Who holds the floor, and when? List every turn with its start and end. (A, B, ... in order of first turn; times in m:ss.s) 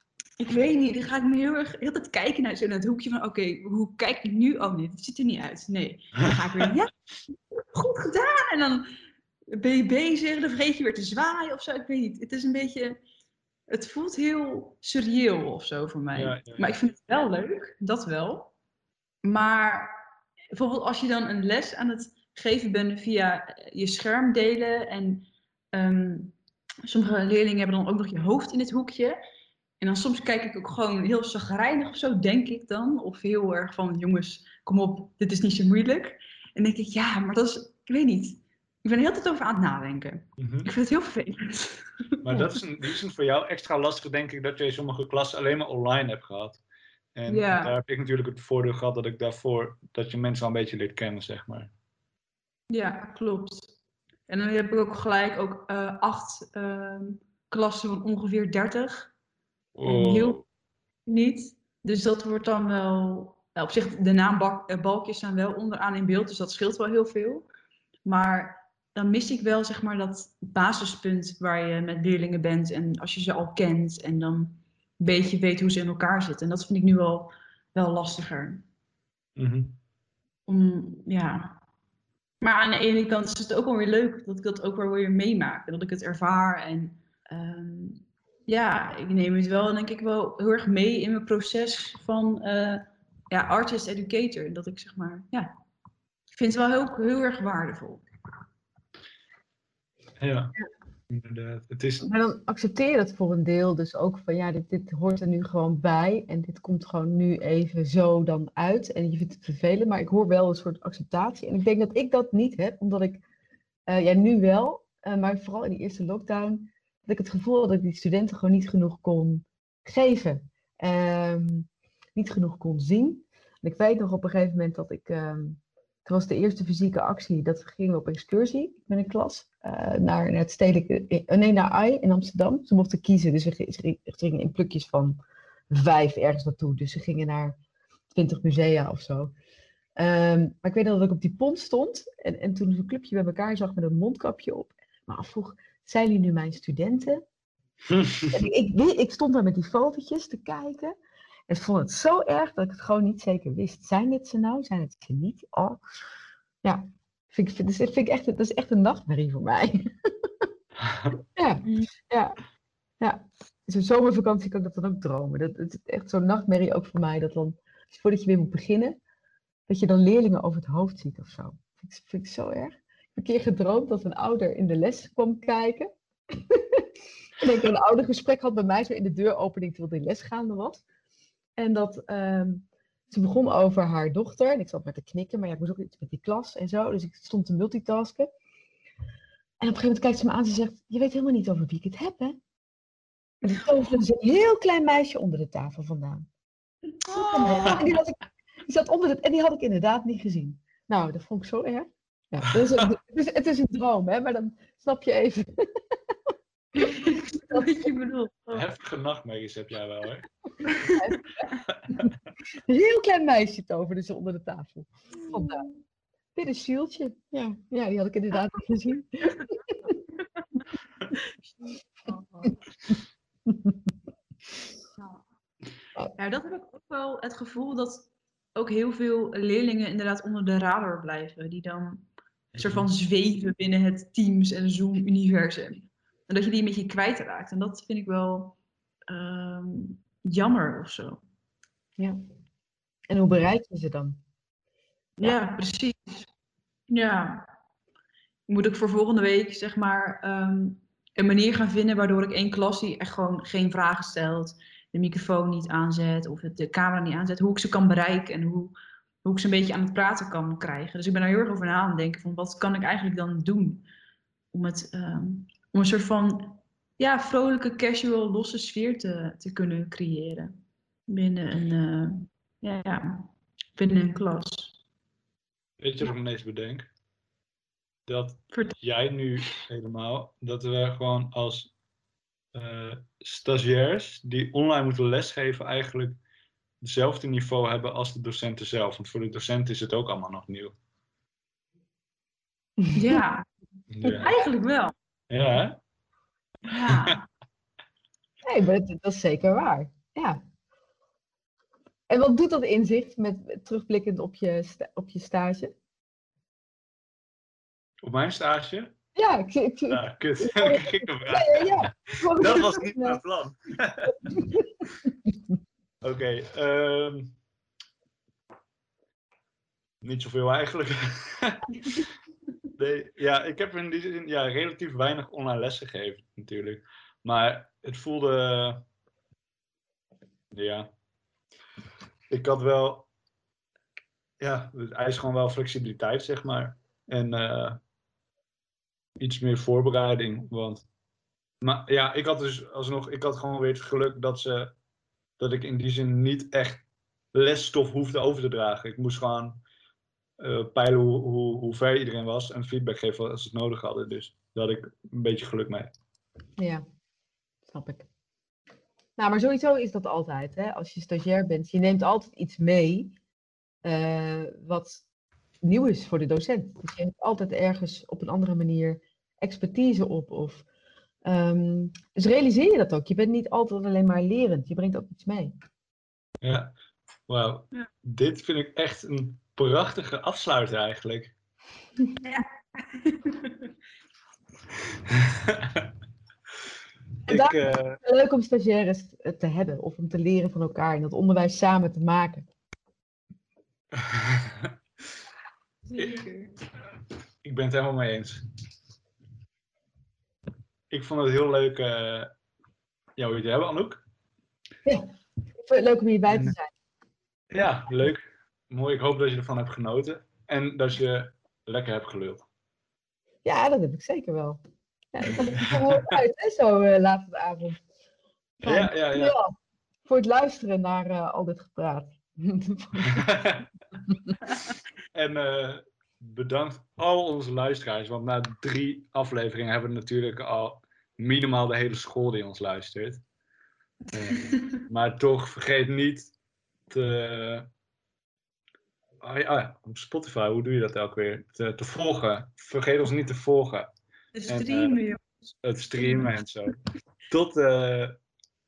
0:00.4-0:06.9 A
0:07.6-0:08.9 A
0:09.5-0:13.0 A
0:13.7-0:18.5 A
0:16.1-0:16.8 B
0:19.2-0:20.0 A
0:20.5-0:26.3 A
0:26.8-0:29.2 A
0:29.8-0:42.6 A
0:40.4-0:40.7 B
0:42.2-0:46.6 B
0:47.1-0:51.7 B
0:47.3-0:47.7 A
0:52.7-0:53.7 A
0:54.3-0:59.1 A
0:59.7-1:00.4 B
0:59.8-1:00.4 A
1:01.1-1:07.5 A
1:08.0-1:18.6 A
1:19.4-1:19.8 B
1:20.5-1:21.6 A
1:22.4-1:35.5 A
1:36.3-1:38.0 A
1:40.2-1:40.5 B
1:41.1-1:42.1 B
1:42.0-1:53.2 C
1:53.9-2:15.2 C
2:15.7-2:17.6 C
2:18.1-2:19.3 C
2:20.0-2:27.2 C
2:27.9-2:28.3 B
2:28.3-2:31.0 C
2:31.5-2:35.8 C
2:36.6-2:39.9 C
2:40.8-2:41.2 B
2:41.4-2:42.4 C
2:43.0-2:49.0 C
2:49.7-2:56.8 C
2:57.4-3:00.8 C
3:01.6-3:08.3 C
3:09.6-3:12.4 C
3:13.4-3:16.3 C
3:17.1-3:25.7 C
3:17.1-3:17.9 A
3:26.8-3:27.8 C
3:26.9-3:28.6 A
3:28.5-3:30.3 B
3:30.9-3:31.3 C
3:32.7-3:35.6 C
3:35.3-3:35.7 A
3:36.4-3:40.0 C
3:42.0-3:42.5 A
3:45.0-3:45.2 A
3:46.2-3:58.6 A
3:52.6-3:52.8 B
3:59.1-4:01.2 A
4:03.1-4:04.2 C
4:05.2-4:06.3 A
4:06.9-4:07.4 A
4:08.5-4:23.8 A
4:24.5-4:30.6 A
4:31.1-4:34.8 A
4:35.8-4:36.9 B
4:38.1-4:41.7 B
4:42.5-4:46.2 B
4:46.8-4:50.7 B
4:52.9-4:53.4 A
4:53.9-4:54.3 B
4:54.0-4:54.9 A
4:55.3-4:55.8 B
4:56.7-4:57.2 A
4:56.8-4:57.1 B
4:58.4-5:00.4 C
5:02.1-5:05.7 C
5:08.0-5:08.9 B
5:09.2-5:13.2 C
5:09.9-5:14.3 B
5:14.2-5:14.7 C
5:16.0-5:17.3 B
5:20.0-5:21.7 B
5:22.8-5:28.8 B
5:30.5-5:30.9 B
5:32.3-5:33.1 B
5:34.4-5:37.8 B
5:39.2-5:40.8 B
5:41.6-5:44.7 B
5:45.4-5:49.6 B
5:50.4-5:55.9 B
5:56.6-5:56.8 C
5:57.7-5:58.0 C
5:59.2-6:03.1 C
6:03.8-6:05.0 C
6:05.6-6:10.6 C
6:11.2-6:15.5 C
6:16.4-6:16.7 B
6:17.3-6:21.3 B
6:22.2-6:23.6 A
6:25.1-6:25.9 B
6:27.3-6:32.5 C
6:27.3-6:28.0 B
6:33.9-6:34.7 B
6:35.9-6:36.5 A
6:37.4-6:38.4 B
6:40.9-6:42.3 B
6:43.2-6:44.0 B
6:45.6-6:46.7 C
6:47.5-6:52.4 B
6:53.4-6:54.6 C
6:55.1-6:57.8 C
6:55.4-6:56.0 B
6:58.6-6:59.5 C
6:58.6-6:59.3 B
7:00.0-7:03.2 C
7:03.0-7:03.7 B
7:05.1-7:13.2 B
7:14.1-7:16.3 B
7:14.4-7:14.8 A
7:16.9-7:17.7 B
7:19.2-7:23.9 B
7:24.3-7:25.3 A
7:24.5-7:25.0 B
7:25.6-7:26.8 B
7:26.0-7:26.3 A
7:27.3-7:28.2 B